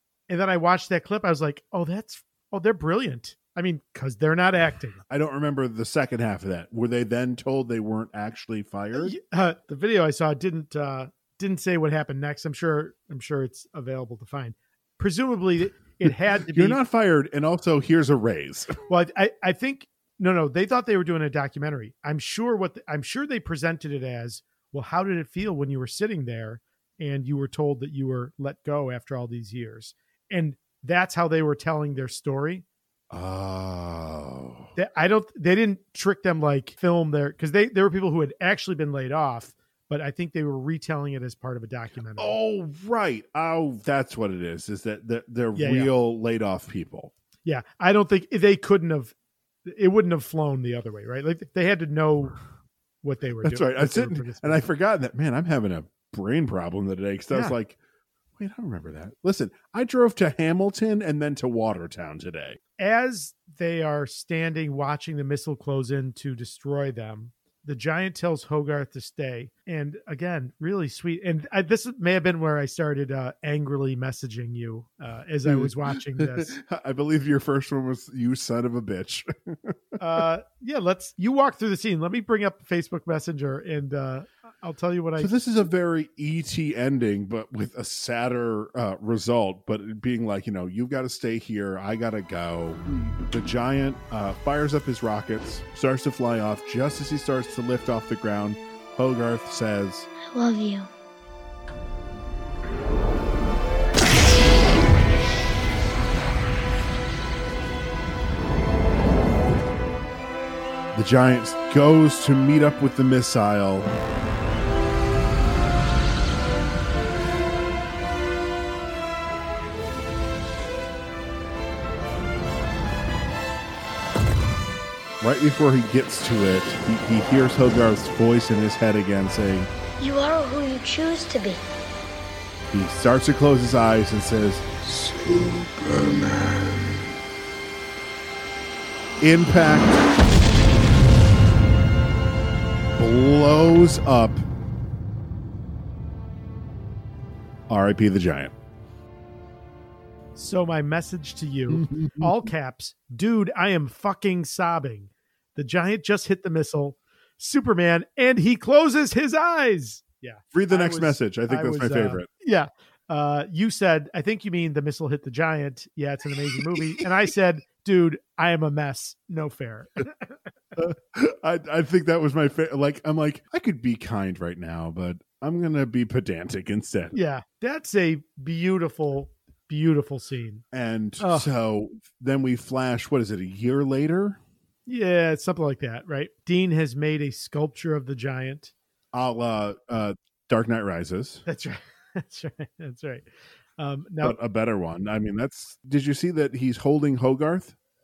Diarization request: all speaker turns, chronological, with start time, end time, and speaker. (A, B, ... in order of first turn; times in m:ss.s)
0:00.3-0:05.0 A
0:05.1-0:09.1 B
0:08.9-0:16.8 A
0:16.0-0:18.8 B
0:18.9-0:32.6 A
0:33.1-0:34.7 B
0:34.8-0:42.4 A
0:42.2-0:47.1 B
0:45.5-0:45.9 A
0:47.4-0:49.1 A
0:49.6-0:52.4 A
0:53.0-0:54.7 A
0:53.4-0:57.8 B
0:57.3-0:57.6 A
0:58.4-1:02.6 B
1:02.8-1:16.6 A
1:15.4-1:19.7 B
1:20.0-1:25.3 A
1:25.2-1:40.1 B
1:40.3-1:40.9 C
1:50.9-1:53.9 B
2:05.2-2:09.7 B
2:10.0-2:11.6 C
2:12.7-2:14.6 B
2:14.8-2:16.8 D
2:19.2-2:20.0 B
2:23.0-2:24.4 B
2:27.7-2:28.5 B
2:30.3-2:50.4 A
2:31.7-2:32.5 B
2:40.5-2:42.3 B
2:46.7-2:47.0 B
2:50.8-2:57.2 B
2:57.1-3:00.6 A
3:00.7-3:04.4 B
3:01.2-3:01.5 A
3:04.8-3:08.7 A
3:09.1-3:11.4 B
3:11.4-3:14.4 A
3:14.2-3:17.7 B